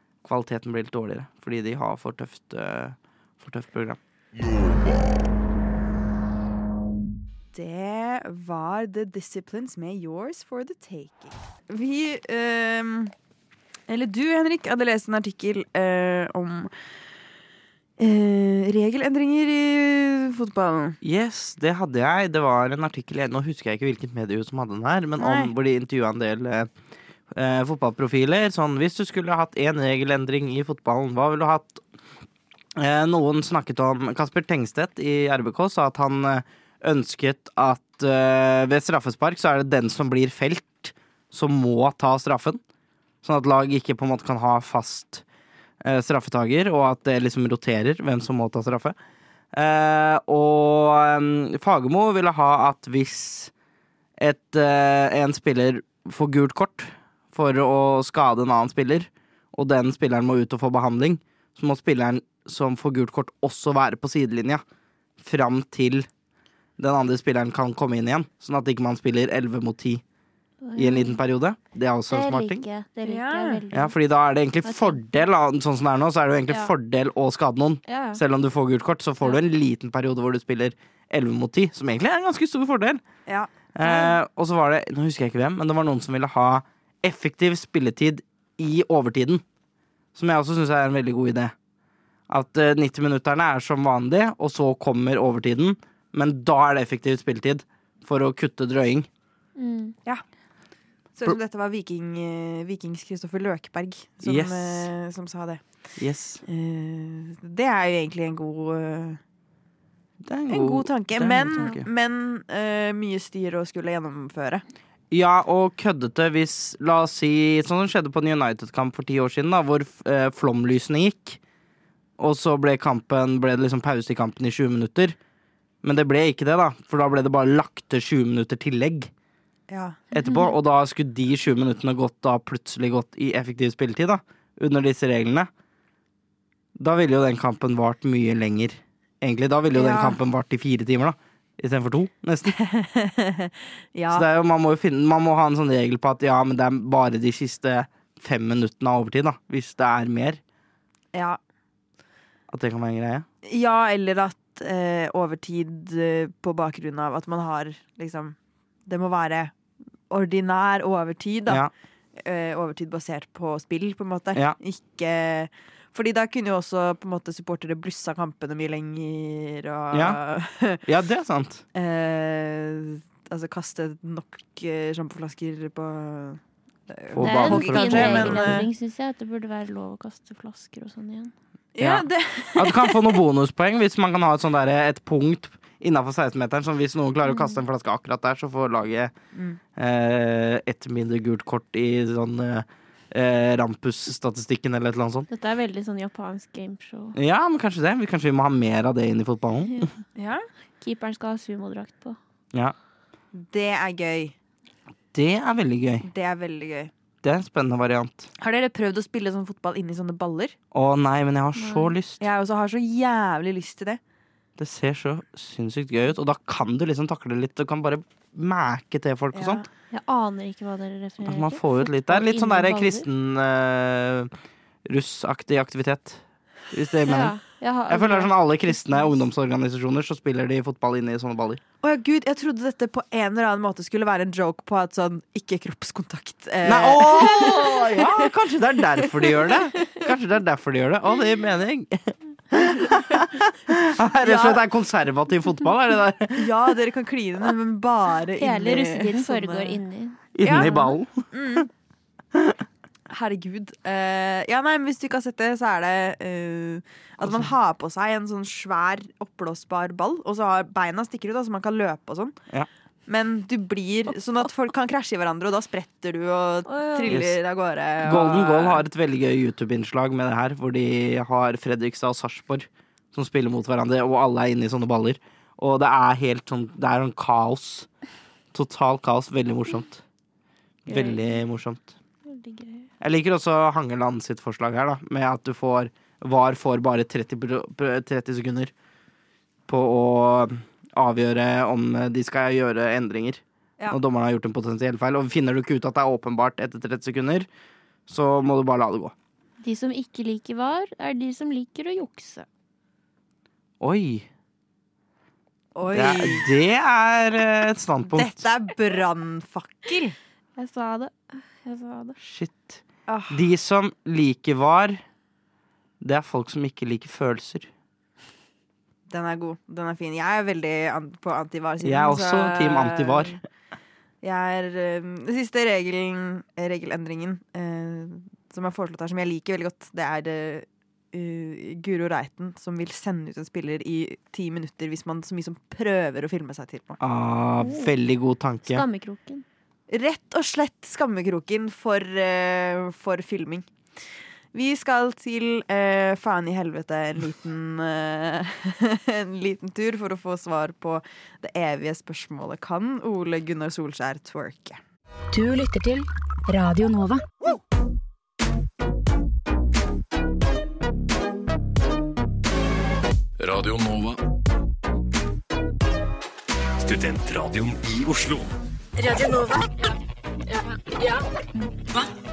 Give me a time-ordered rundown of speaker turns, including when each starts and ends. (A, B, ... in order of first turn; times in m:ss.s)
0:00.2-0:04.0 A
0:07.5-0:13.1 B
0:13.9-0:16.7 B
0:18.0-0:21.0 B
0:21.0-0:26.7 A
0:25.2-0:25.5 B
0:27.3-0:31.8 A
0:32.8-0:42.6 A
0:43.2-0:45.2 A
0:45.8-0:49.0 A
0:49.5-0:53.5 A
0:54.2-1:04.6 A
1:05.2-1:06.1 A
1:06.8-1:10.0 A
1:10.6-1:11.2 C
1:10.8-1:12.6 A
1:12.1-1:13.9 C
1:13.0-1:13.6 B
1:13.7-1:23.0 A
1:14.6-1:15.0 C
1:17.9-1:18.2 C
1:23.7-1:29.4 A
1:30.1-1:31.5 A
1:32.3-1:39.1 A
1:39.6-1:39.9 C
1:41.2-1:45.6 B
1:44.2-1:44.9 A
1:46.0-1:46.4 A
1:46.4-1:49.2 B
1:50.2-1:51.9 A
1:50.5-1:54.6 B
1:55.1-2:01.4 A
2:02.2-2:05.2 A
2:05.8-2:09.1 A
2:09.7-2:10.0 B
2:10.1-2:15.5 A
2:10.1-2:10.5 C
2:16.8-2:22.6 A
2:19.7-2:20.2 B
2:22.5-2:24.2 B
2:24.1-2:30.4 A
2:31.1-2:31.4 B
2:32.5-2:33.2 A
2:33.4-2:39.5 B
2:40.1-2:50.8 B
2:49.9-2:50.2 A
2:50.8-2:51.6 A
2:51.7-2:58.7 B
2:57.1-2:58.7 A
2:57.2-3:01.3 C
3:01.8-3:03.2 B
3:01.8-3:09.1 A
3:07.3-3:07.6 C
3:09.3-3:09.6 B
3:09.7-3:15.3 A
3:15.3-3:17.2 C
3:17.2-3:19.9 A
3:20.2-3:20.4 B
3:20.8-3:22.2 C
3:23.3-3:24.3 B
3:25.1-3:26.1 A
3:26.0-3:26.9 B
3:27.2-3:28.3 A
3:28.4-3:30.6 B
3:30.7-3:32.2 A
3:31.6-3:31.9 C
3:32.2-3:34.0 B
3:34.6-3:39.6 A
3:39.3-3:39.6 B
3:39.9-3:43.0 C
3:41.2-3:44.3 A
3:44.8-3:47.4 A
3:47.1-3:48.3 C
3:47.9-3:51.6 A
3:51.8-3:58.3 B
3:56.6-4:06.6 A
3:59.0-3:59.5 B
4:04.2-4:04.6 B
4:06.3-4:09.8 B
4:08.4-4:10.9 C
4:10.3-4:11.6 A
4:10.4-4:10.8 B
4:11.3-4:11.7 B
4:12.3-4:12.6 A
4:13.1-4:22.4 B
4:17.2-4:17.5 A
4:23.1-4:28.8 B
4:26.7-4:27.2 C
4:27.1-4:27.4 A
4:28.0-4:37.9 A
4:38.5-4:40.0 A
4:40.8-4:42.0 A
4:40.9-4:41.3 C
4:42.3-4:42.9 C
4:43.0-4:48.7 A
4:49.6-4:57.5 A
4:58.1-4:59.1 A
4:59.6-5:02.4 C
5:03.8-5:04.3 A
5:05.7-5:06.5 B
5:05.9-5:08.5 A
5:08.1-5:10.2 B
5:10.6-5:12.2 C
5:12.2-5:15.0 A
5:13.1-5:13.5 B
5:16.0-5:17.7 A
5:19.1-5:23.4 B
5:21.8-5:23.4 A
5:24.2-5:37.0 B
5:37.0-5:38.8 A
5:37.6-5:37.9 C
5:38.6-5:39.4 C
5:39.9-5:43.7 B
5:44.5-5:54.8 B
5:55.3-5:57.2 D
6:03.4-6:04.2 E
6:06.8-6:08.5 E
6:09.0-6:09.9 D
6:10.5-6:11.2 D